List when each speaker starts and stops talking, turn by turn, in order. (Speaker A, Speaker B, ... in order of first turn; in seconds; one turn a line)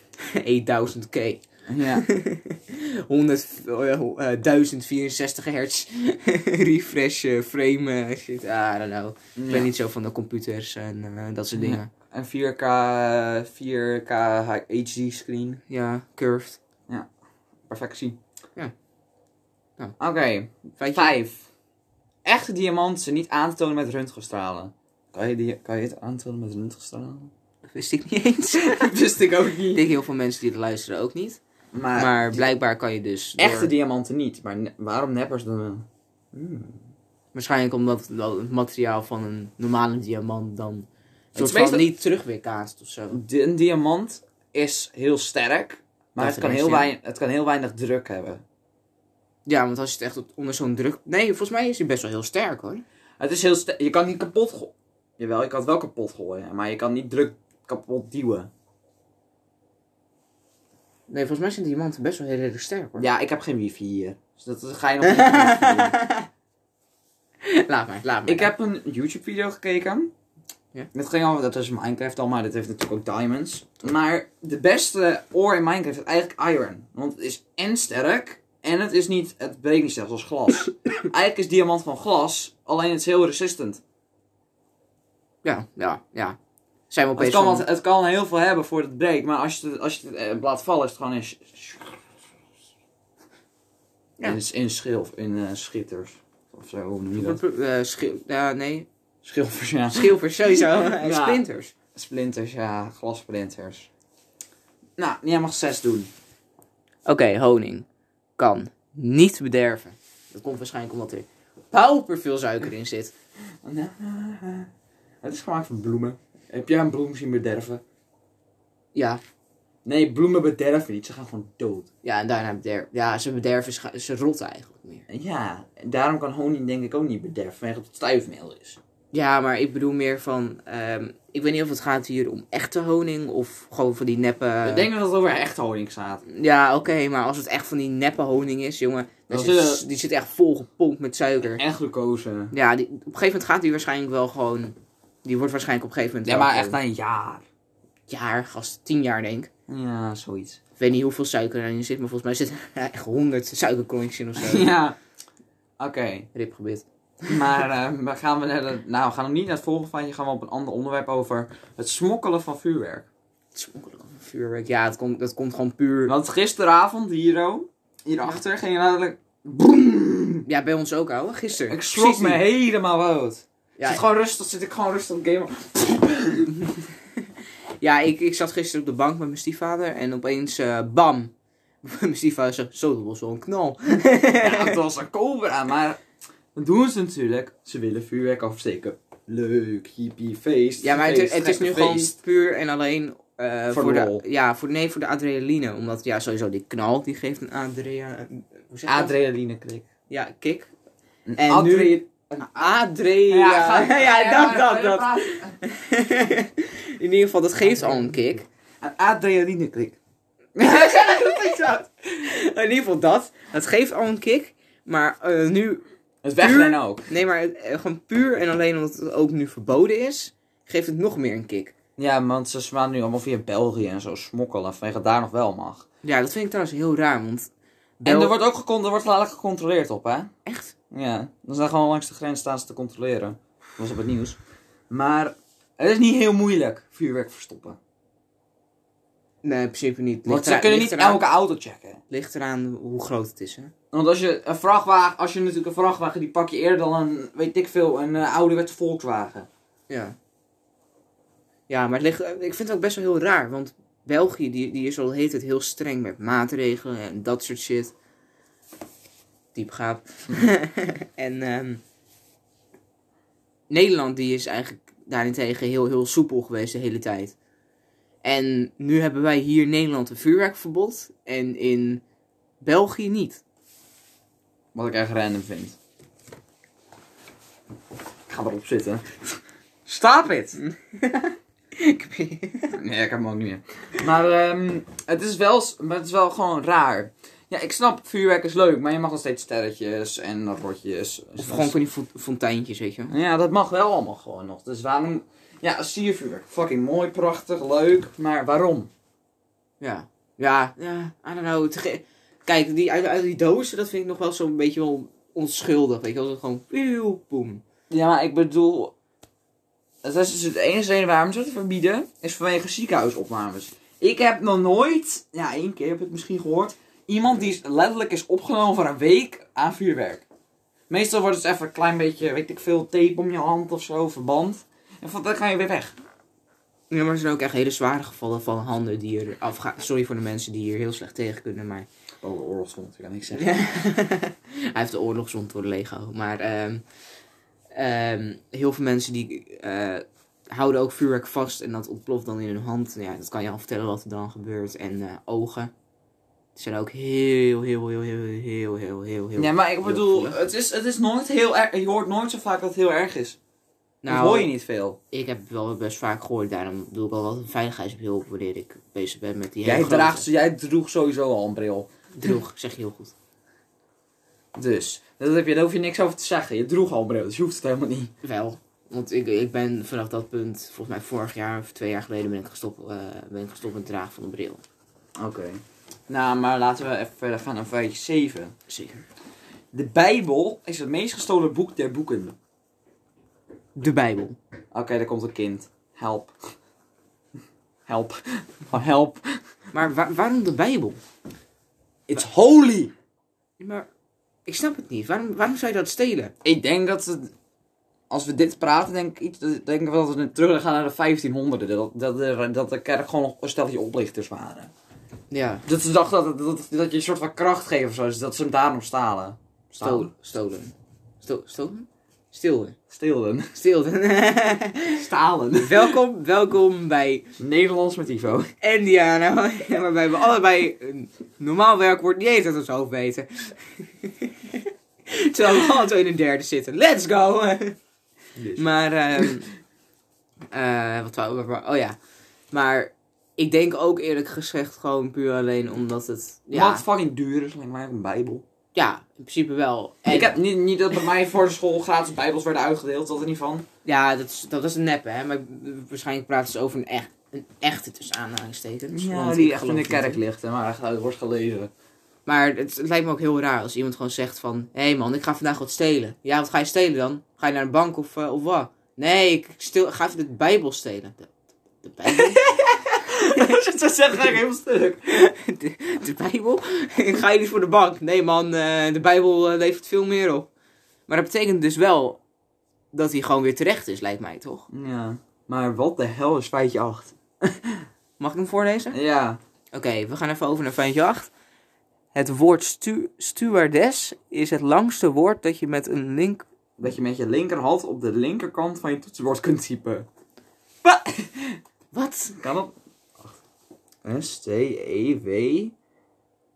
Speaker A: 0.3-11.9
Speaker B: 1.7-2.0
Speaker B: 9.3-9.7
Speaker B: 11.5-15.6
Speaker A: 15.7-16.6
Speaker B: 17.7-18.2
Speaker B: 20.0-21.4
Speaker A: 20.8-21.1
Speaker B: 22.2-27.3
Speaker A: 27.7-28.9
Speaker B: 28.5-29.8
Speaker A: 29.7-31.4
Speaker B: 31.7-32.5
Speaker A: 31.9-33.7
Speaker B: 33.4-36.8
Speaker A: 37.3-43.2
Speaker B: 41.3-41.9
Speaker B: 43.1-48.4
Speaker A: 46.2-46.9
Speaker A: 49.5-52.8
Speaker B: 53.2-58.5
Speaker A: 61.1-63.1
Speaker B: 63.0-66.0
Speaker A: 65.0-66.3
Speaker A: 67.4-68.5
Speaker B: 68.3-70.1
Speaker B: 70.9-83.8
Speaker A: 85.4-86.4
Speaker A: 86.9-87.7
Speaker B: 87.2-92.0
Speaker B: 94.2-97.4
Speaker A: 97.1-98.9
Speaker B: 99.2-103.9
Speaker A: 99.9-101.7
Speaker B: 105.0-106.1
Speaker A: 107.1-107.9
Speaker A: 108.4-113.1
Speaker B: 113.6-114.7
Speaker B: 115.2-117.8
Speaker A: 118.9-119.2
Speaker B: 119.8-121.9
Speaker A: 122.0-125.0
Speaker B: 125.1-128.8
Speaker A: 129.1-134.9
Speaker B: 134.6-136.2
Speaker A: 136.2-141.6
Speaker B: 139.3-139.8
Speaker B: 141.4-142.5
Speaker A: 142.5-146.8
Speaker B: 146.2-147.4
Speaker A: 148.1-149.5
Speaker B: 149.7-150.6
Speaker A: 150.8-154.7
Speaker B: 154.4-155.0
Speaker B: 155.8-156.3
Speaker A: 156.3-157.5
Speaker B: 157.3-163.1
Speaker A: 163.5-166.1
Speaker B: 166.1-170.4
Speaker A: 170.4-172.4
Speaker B: 171.7-176.6
Speaker A: 173.8-174.0
Speaker A: 177.8-181.3
Speaker A: 181.8-184.8
Speaker B: 184.4-186.0
Speaker B: 186.5-192.1
Speaker A: 190.8-199.1
Speaker B: 193.7-194.2
Speaker B: 198.9-199.8
Speaker A: 200.1-200.7
Speaker B: 201.3-202.7
Speaker A: 201.4-208.4
Speaker B: 203.3-205.6
Speaker B: 207.7-208.1
Speaker B: 208.8-210.0
Speaker B: 210.6-211.6
Speaker A: 210.6-215.8
Speaker B: 216.2-217.1
Speaker A: 216.4-221.7
Speaker B: 222.0-225.8
Speaker A: 226.0-227.5
Speaker A: 228.0-228.3
Speaker B: 228.0-230.3
Speaker A: 230.4-230.7
Speaker B: 230.9-234.4
Speaker B: 234.9-237.8
Speaker A: 239.4-241.2
Speaker B: 240.2-242.0
Speaker A: 242.1-243.7
Speaker B: 243.9-249.5
Speaker A: 249.9-250.2
Speaker A: 251.7-257.9
Speaker A: 259.5-261.8
Speaker A: 263.7-267.4
Speaker A: 268.2-272.0
Speaker A: 272.6-273.4
Speaker B: 274.7-275.8
Speaker B: 278.3-280.6
Speaker A: 280.6-282.8
Speaker B: 282.7-291.7
Speaker A: 291.4-293.1
Speaker B: 293.1-298.9
Speaker A: 299.8-307.6
Speaker B: 307.9-308.9
Speaker B: 310.0-320.2
Speaker B: 320.9-325.9
Speaker A: 326.9-331.9
Speaker B: 332.2-333.5
Speaker A: 333.3-336.8
Speaker A: 337.7-345.7
Speaker A: 346.6-350.4
Speaker B: 349.4-353.4
Speaker A: 354.0-354.5
Speaker B: 354.1-355.0
Speaker A: 355.1-360.3
Speaker B: 359.6-361.9
Speaker A: 362.1-363.1
Speaker B: 364.5-368.1
Speaker A: 368.2-374.6
Speaker B: 375.2-378.5
Speaker A: 378.7-379.1
Speaker B: 379.7-382.4
Speaker A: 383.8-384.4
Speaker B: 384.7-386.3
Speaker B: 387.9-389.2
Speaker A: 389.7-391.0
Speaker B: 392.1-392.9
Speaker A: 393.6-393.9
Speaker A: 394.4-396.3
Speaker B: 396.4-397.3
Speaker B: 398.1-404.7
Speaker A: 405.3-405.6
Speaker B: 405.6-410.1
Speaker A: 409.8-412.8
Speaker B: 412.9-413.5
Speaker A: 413.5-415.0
Speaker B: 414.9-416.0
Speaker A: 415.6-417.3
Speaker B: 417.4-418.5
Speaker A: 418.6-427.8
Speaker B: 428.4-428.7
Speaker A: 428.5-429.5
Speaker A: 430.5-432.0
Speaker A: 432.5-436.8
Speaker B: 436.5-438.4
Speaker A: 438.7-440.4
Speaker B: 440.1-443.6
Speaker A: 443.8-450.2
Speaker B: 448.9-451.7
Speaker A: 452.2-462.4
Speaker B: 462.1-465.0
Speaker A: 465.1-470.5
Speaker A: 471.1-472.2
Speaker A: 472.9-474.7
Speaker B: 474.7-477.9
Speaker A: 478.2-479.0
Speaker B: 478.9-479.4
Speaker A: 479.7-481.3
Speaker A: 482.1-486.4
Speaker B: 486.8-490.1
Speaker B: 490.8-491.6
Speaker A: 491.9-492.4
Speaker B: 492.4-493.4
Speaker B: 494.0-495.7